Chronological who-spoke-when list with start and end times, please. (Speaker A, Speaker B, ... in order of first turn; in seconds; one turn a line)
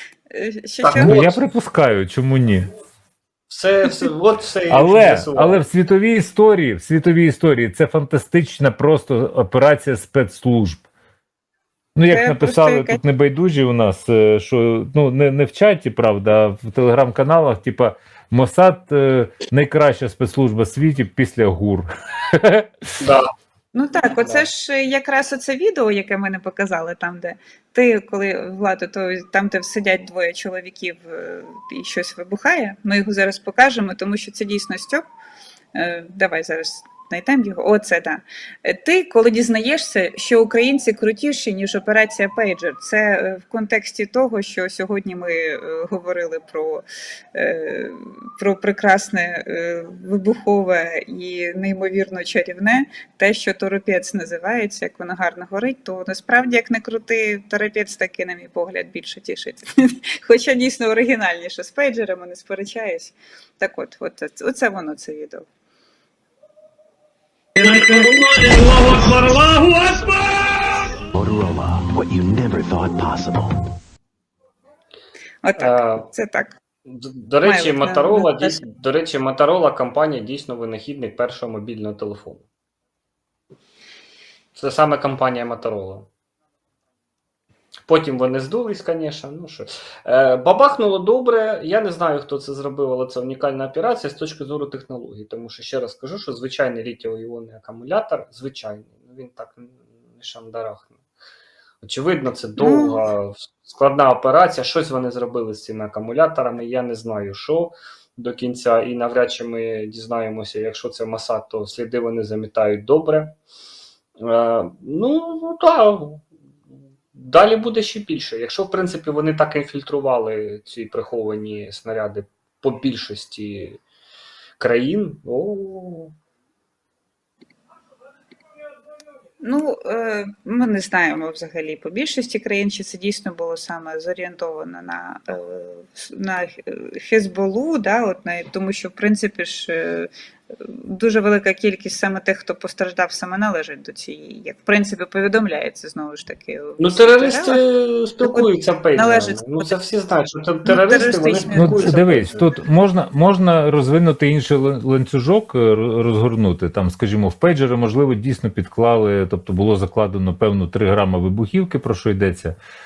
Speaker A: 0.3-1.2
Speaker B: 0.8-1.4
Speaker C: 0.9-2.7
Speaker B: 3.5-5.6
Speaker C: 4.7-10.8
Speaker C: 11.9-22.7
Speaker A: 12.1-13.0
Speaker B: 23.0-23.2
Speaker A: 23.7-35.0
Speaker B: 24.2-24.4
Speaker A: 35.7-65.5
Speaker B: 67.5-70.2
Speaker D: 71.1-73.6
Speaker A: 75.4-76.6
Speaker B: 75.6-76.1
Speaker B: 76.8-82.4
Speaker A: 77.4-78.6
Speaker B: 84.5-86.1
Speaker B: 87.9-101.0
Speaker B: 101.8-113.4
Speaker A: 102.6-103.0
Speaker B: 114.2-116.3
Speaker B: 117.1-123.8
Speaker B: 124.6-126.1
Speaker A: 129.4-147.6
Speaker B: 146.8-152.4
Speaker A: 148.2-149.7
Speaker A: 150.6-151.9
Speaker C: 151.5-162.5